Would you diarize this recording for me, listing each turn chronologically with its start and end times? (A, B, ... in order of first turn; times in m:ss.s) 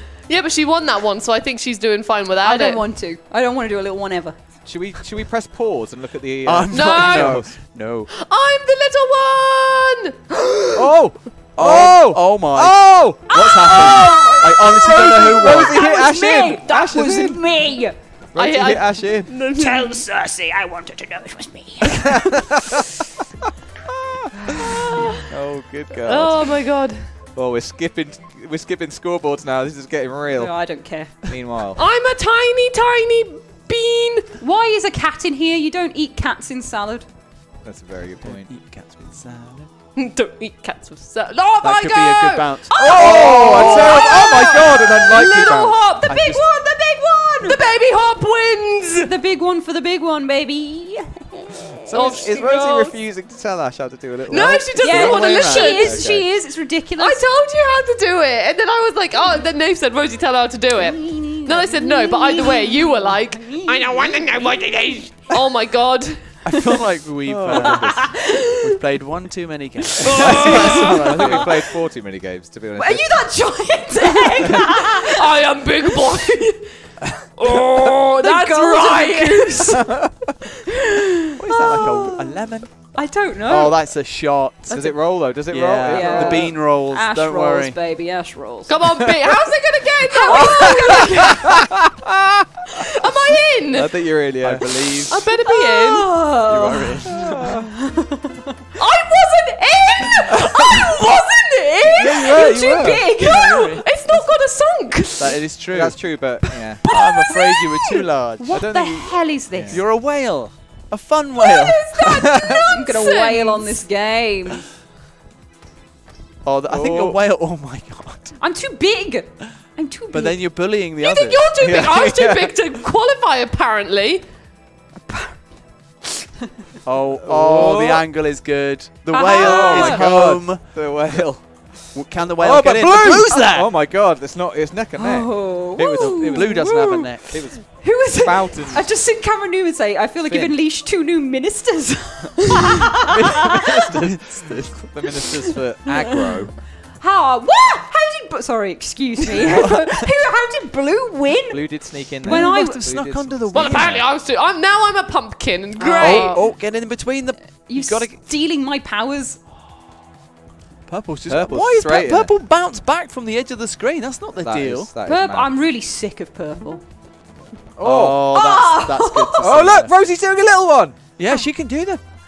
0:00.2-0:02.8 A
0:02.4-0:04.4 B
0:04.6-0:07.6 C
0:06.4-0:08.1 D
0:06.7-0:07.6 A
0:08.1-0:10.6 A
0:10.7-0:17.6 C
0:11.6-0:15.8 D
0:13.3-0:18.0 B
0:18.3-0:19.3 C
0:18.3-0:20.0 A
0:19.5-0:22.4 B
0:23.9-0:26.5 C
0:24.8-0:25.0 B
0:26.0-0:27.0 A
0:27.3-0:31.8 C
0:30.3-0:31.4 B
0:31.8-0:34.3 A
0:34.4-0:37.1 B
0:37.6-0:38.5 C
0:38.2-0:39.7 D
0:40.0-0:46.1 A
0:41.6-0:44.0 D
0:42.7-0:45.9 C
0:42.8-0:47.6 B
0:46.1-0:46.4 D
0:47.4-0:49.1 A
0:49.0-0:51.3 B
0:51.8-0:56.3 C
0:51.9-0:53.0 A
0:54.3-0:56.0 A
0:54.8-0:57.2 B
0:54.9-0:55.9 D
0:57.0-1:06.4 A
1:00.8-1:04.3 B
1:06.4-1:11.5 D
1:07.2-1:08.1 C
1:10.0-1:11.4 A
1:10.2-1:13.7 C
1:10.4-1:10.7 B
1:12.8-1:15.2 B
1:14.9-1:19.8 A
1:18.2-1:19.9 B
1:19.8-1:20.3 C
1:21.3-1:27.8 D
1:21.7-1:22.0 B
1:22.8-1:23.8 B
1:24.7-1:26.6 C
1:25.8-1:28.8 B
1:28.7-1:31.3 A
1:30.1-1:31.7 B
1:30.7-1:32.4 C
1:33.0-1:34.0 A
1:33.7-1:35.1 C
1:34.4-1:35.2 D
1:35.1-1:36.2 A
1:35.4-1:38.2 B
1:36.5-1:37.7 C
1:36.6-1:37.2 D
1:38.8-1:42.4 A
1:39.7-1:43.8 B
1:41.9-1:43.1 C
1:43.2-1:44.2 D
1:43.3-1:45.4 A
1:45.2-1:46.2 D
1:45.7-1:47.3 C
1:46.8-1:49.8 B
1:46.8-1:48.6 D
1:48.5-1:49.8 C
1:49.7-1:52.1 D
1:51.5-1:54.6 B
1:52.0-1:52.7 C
1:52.9-1:53.8 A
1:56.4-1:58.4 D
1:56.7-1:57.2 C
1:58.4-2:00.5 B
2:00.1-2:01.4 D
2:01.0-2:04.2 A
2:01.6-2:02.6 C
2:05.0-2:06.1 B
2:06.8-2:11.3 D
2:07.2-2:08.0 C
2:09.1-2:10.1 B
2:09.3-2:18.9 C
2:11.9-2:13.7 D
2:15.0-2:23.1 B
2:16.2-2:17.3 D
2:20.2-2:20.6 C
2:23.1-2:26.6 C
2:24.0-2:24.7 D
2:26.9-2:32.9 B
2:29.5-2:29.9 D
2:31.5-2:34.1 C
2:32.2-2:34.0 D
2:33.5-2:36.4 A
2:35.8-2:36.6 B
2:36.0-2:38.2 D
2:37.6-2:39.4 B
2:40.8-2:44.9 D
2:41.3-2:42.3 C
2:44.4-2:45.5 C
2:45.0-2:46.8 B
2:47.8-2:48.4 C
2:47.8-2:49.9 D
2:48.3-2:49.5 B
2:49.4-2:51.0 C
2:51.2-2:52.0 D